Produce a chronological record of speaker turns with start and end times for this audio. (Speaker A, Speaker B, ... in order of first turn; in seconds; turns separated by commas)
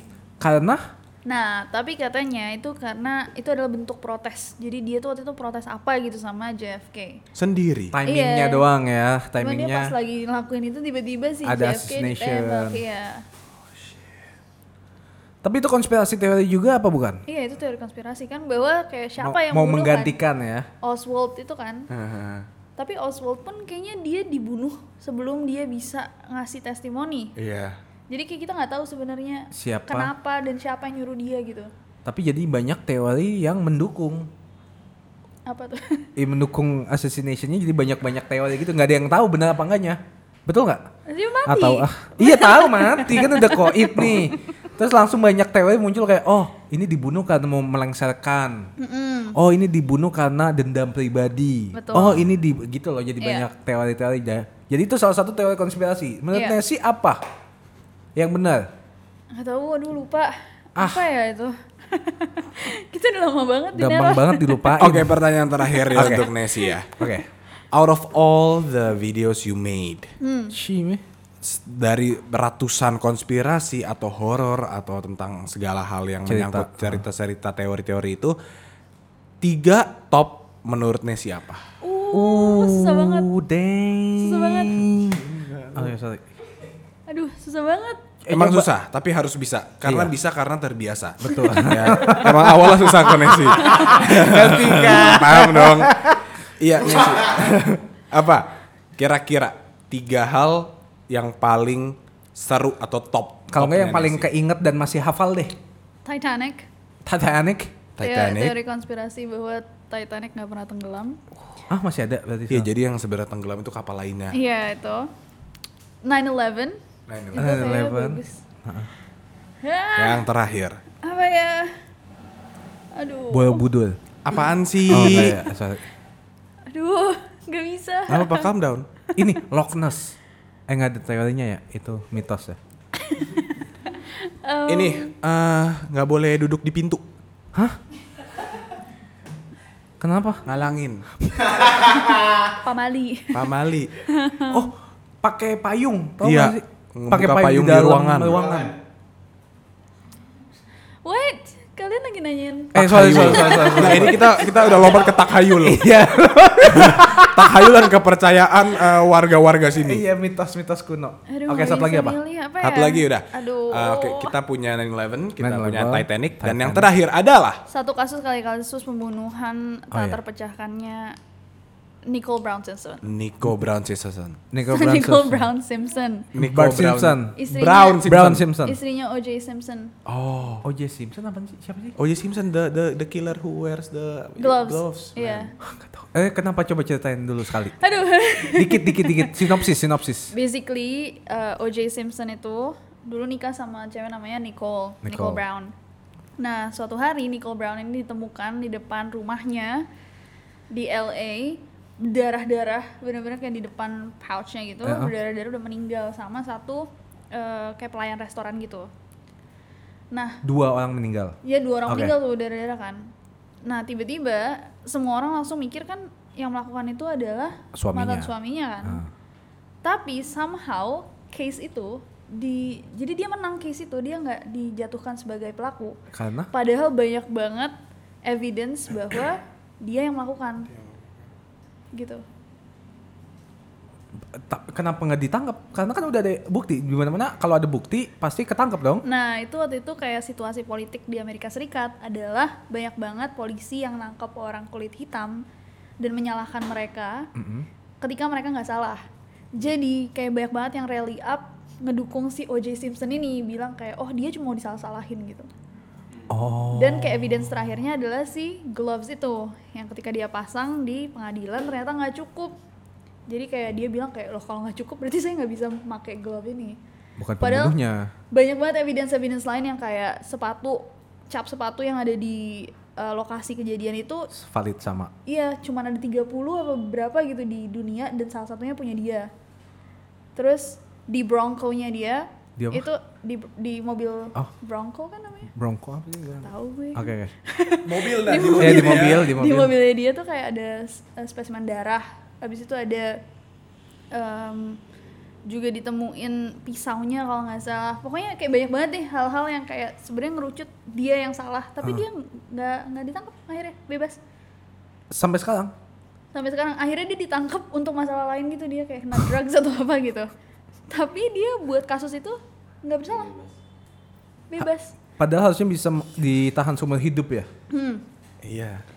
Speaker A: 0.4-0.9, Speaker B: 1.3-7.2, Speaker C: 7.3-8.0, Speaker A: 7.9-9.9, Speaker B: 8.1-8.7, Speaker B: 9.4-13.2, Speaker A: 11.4-12.8, Speaker A: 15.4-17.2, Speaker B: 17.3-20.2, Speaker A: 19.2-20.7, Speaker B: 20.8-21.9, Speaker C: 21.9-22.5, Speaker B: 22.8-27.3, Speaker C: 27.4-27.8, Speaker B: 28.1-31.7, Speaker A: 29.5-30.1, Speaker A: 32.0-34.3, Speaker B: 35.5-36.1, Speaker A: 36.2-40.9, Speaker B: 41.1-44.3, Speaker A: 41.5-48.7, Speaker B: 48.8-49.4, Speaker A: 49.3-57.2, Speaker B: 51.7-52.2, Speaker B: 53.2-53.5, Speaker B: 56.3-56.6, Speaker A: 58.2-58.7, Speaker B: 59.3-65.0, Speaker A: 60.8-61.0, Speaker A: 63.8-65.3, Speaker C: 64.8-66.9, Speaker B: 65.5-66.8, Speaker A: 65.9-66.3, Speaker A: 67.0-67.3, Speaker C: 67.7-70.1, Speaker B: 70.2-70.6, Speaker A: 70.5-71.0, Speaker C: 71.4-78.3, Speaker A: 76.3-77.0, Speaker C: 79.4-81.7, Speaker B: 81.8-83.3, Speaker A: 82.1-86.2, Speaker B: 84.2-84.9, Speaker C: 85.1-86.0, Speaker B: 87.1-88.0, Speaker A: 88.2-88.7, Speaker C: 88.3-104.3, Speaker A: 89.8-90.1, Speaker A: 91.2-93.0, Speaker B: 91.5-92.2, Speaker B: 93.6-94.0, Speaker A: 93.6-96.2, Speaker A: 103.5-105.5, Speaker B: 106.0-106.7, Speaker A: 107.1-107.8, Speaker C: 108.0-108.5, Speaker B: 108.0-111.2, Speaker A: 111.7-112.7, Speaker C: 112.5-114.4, Speaker B: 114.3-115.1, Speaker B: 116.0-116.8, Speaker C: 117.1-117.8, Speaker B: 117.3-118.4, Speaker A: 117.4-118.9, Speaker B: 119.6-120.2, Speaker C: 120.0-120.8, Speaker B: 121.0-121.8, Speaker B: 123.0-123.7, Speaker A: 123.3-124.0, Speaker C: 124.2-125.4, Speaker A: 124.9-125.8, Speaker B: 126.7-128.5, Speaker C: 128.1-128.9, Speaker A: 129.2-130.2, Speaker A: 130.7-132.6, Speaker B: 132.9-135.1, Speaker C: 134.7-137.0, Speaker A: 140.0-140.5, Speaker C: 140.5-141.1, Speaker B: 142.4-144.7, Speaker C: 143.3-143.9, Speaker A: 144.5-148.8, Speaker C: 146.2-148.6, Speaker B: 151.1-154.6, Speaker A: 152.7-154.3, Speaker C: 152.8-155.9, Speaker A: 155.6-157.9, Speaker C: 156.7-160.0, Speaker A: 159.8-162.2, Speaker B: 161.3-164.4, Speaker C: 162.6-167.6, Speaker A: 165.4-166.9, Speaker B: 167.7-171.2, Speaker A: 169.9-170.2, Speaker B: 172.1-173.0, Speaker C: 173.0-174.4, Speaker A: 174.5-175.5, Speaker B: 174.7-176.3, Speaker A: 176.3-177.4, Speaker C: 176.3-178.5, Speaker B: 177.3-178.1, Speaker A: 178.0-178.8, Speaker B: 178.6-179.9, Speaker C: 180.1-180.7, Speaker A: 180.6-182.0, Speaker C: 182.0-185.5, Speaker B: 184.4-185.5, Speaker A: 185.7-187.8, Speaker B: 187.8-189.7, Speaker A: 188.5-190.3, Speaker B: 190.3-195.7, Speaker A: 195.0-195.4, Speaker B: 196.4-199.9, Speaker B: 200.7-208.9, Speaker A: 204.8-205.1, Speaker B: 210.1-210.4, Speaker A: 210.4-212.2, Speaker B: 211.4-213.1, Speaker B: 213.7-219.1, Speaker A: 217.7-218.3, Speaker B: 219.8-226.0, Speaker A: 226.1-226.5, Speaker B: 226.5-227.7, Speaker B: 228.2-230.7, Speaker B: 231.9-232.2, Speaker A: 234.3-239.0, Speaker B: 239.0-245.5, Speaker B: 246.0-247.3, Speaker A: 247.3-247.7, Speaker B: 248.0-249.0, Speaker B: 249.5-255.5, Speaker A: 256.3-257.7, Speaker B: 256.7-262.6, Speaker B: 263.3-266.8, Speaker A: 267.2-268.1, Speaker B: 267.4-267.8, Speaker B: 268.3-274.3, Speaker A: 274.3-275.1, Speaker B: 275.3-279.3, Speaker B: 280.4-285.5, Speaker A: 282.6-282.9, Speaker A: 285.6-287.3, Speaker B: 286.4-293.2, Speaker C: 287.7-289.3, Speaker A: 288.6-289.7, Speaker B: 294.1-294.8, Speaker B: 295.5-304.2, Speaker A: 305.1-305.7, Speaker B: 306.3-310.3, Speaker B: 310.9-313.4, Speaker B: 314.5-315.0, Speaker A: 315.2-317.5, Speaker B: 317.7-318.0, Speaker C: 318.4-318.8